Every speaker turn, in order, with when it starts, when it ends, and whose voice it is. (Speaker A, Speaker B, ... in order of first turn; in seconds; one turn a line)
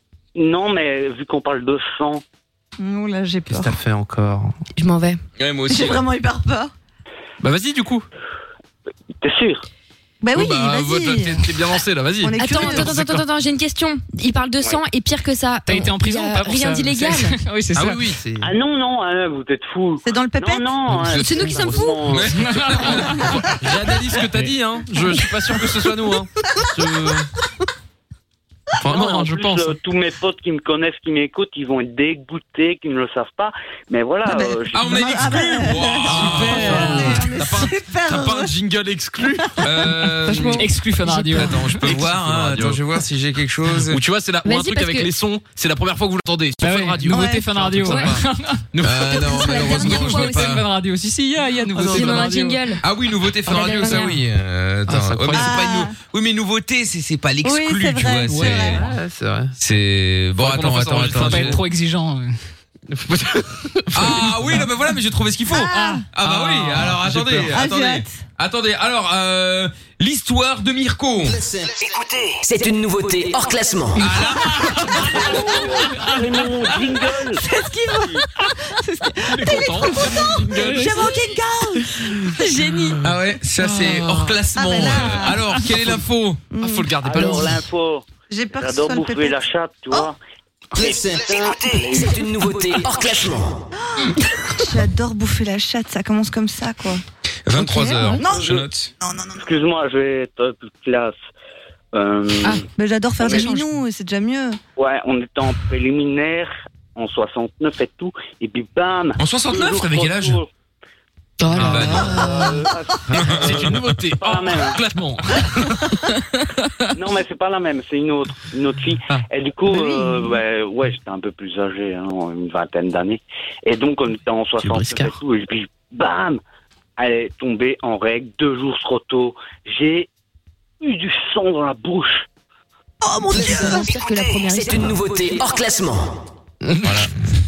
Speaker A: 0.3-2.2
Speaker B: 2.8-3.7
Speaker C: 3.5-4.6
Speaker D: 4.8-5.2
Speaker E: 5.4-6.0
Speaker B: 5.7-6.7
Speaker C: 7.4-8.1
Speaker A: 9.2-9.7
Speaker B: 10.2-11.5
Speaker C: 10.3-13.3
Speaker B: 12.2-12.9
Speaker D: 12.4-17.4
Speaker F: 15.7-18.0
Speaker C: 17.7-18.5
Speaker A: 18.4-22.6
Speaker B: 20.0-20.7
Speaker E: 21.0-23.1
Speaker D: 21.1-22.1
Speaker F: 22.5-23.1
Speaker C: 22.7-27.3
Speaker C: 28.8-29.8
Speaker A: 28.9-35.1
Speaker B: 34.3-38.5
Speaker E: 34.7-37.2
Speaker C: 36.0-39.9
Speaker F: 36.2-37.2
Speaker E: 39.6-40.7
Speaker F: 40.6-41.8
Speaker D: 41.0-41.7
Speaker C: 41.3-43.0
Speaker E: 41.7-44.0
Speaker C: 43.7-50.0
Speaker D: 44.4-45.1
Speaker F: 46.6-48.6
Speaker B: 47.1-47.5
Speaker E: 48.8-50.7
Speaker D: 49.0-50.5
Speaker F: 49.8-52.6
Speaker C: 51.8-52.2
Speaker D: 51.9-52.8
Speaker E: 52.8-58.9
Speaker D: 53.5-54.2
Speaker C: 54.9-55.6
Speaker B: 55.4-55.9
Speaker B: 57.4-58.8
Speaker F: 58.3-58.6
Speaker C: 58.4-59.5
Speaker E: 59.6-61.6
Speaker C: 60.4-61.6
Speaker F: 61.2-62.4
Speaker C: 62.9-64.7
Speaker E: 63.9-71.4
Speaker B: 65.5-66.0
Speaker C: 66.2-67.7
Speaker B: 67.5-68.2
Speaker G: 72.3-74.1
Speaker E: 74.0-74.8
Speaker A: 75.2-77.4
Speaker B: 77.2-83.0
Speaker C: 79.3-81.3
Speaker C: 82.1-82.7
Speaker E: 83.0-86.4
Speaker C: 83.6-84.4
Speaker B: 84.5-85.4
Speaker B: 86.5-87.6
Speaker C: 86.6-87.6
Speaker A: 87.0-90.2
Speaker B: 88.3-89.4
Speaker A: 90.8-92.2
Speaker G: 90.8-91.3
Speaker G: 91.9-93.6
Speaker B: 93.8-97.0
Speaker E: 97.5-98.9
Speaker B: 97.5-99.5
Speaker A: 98.1-98.7
Speaker A: 99.3-101.2
Speaker A: 101.9-102.7
Speaker B: 102.8-104.6
Speaker A: 103.2-103.6
Speaker A: 104.8-110.5
Speaker E: 109.2-110.4
Speaker D: 111.4-112.6
Speaker C: 111.5-112.3
Speaker E: 111.6-112.2
Speaker A: 112.1-114.8
Speaker C: 113.1-115.8
Speaker E: 113.1-113.8
Speaker A: 116.9-126.4
Speaker B: 119.7-120.4
Speaker C: 124.6-125.2
Speaker A: 127.0-130.1
Speaker A: 130.8-132.3
Speaker B: 133.0-134.0
Speaker D: 133.3-135.0
Speaker G: 134.5-136.2
Speaker C: 136.6-137.1
Speaker E: 136.8-137.1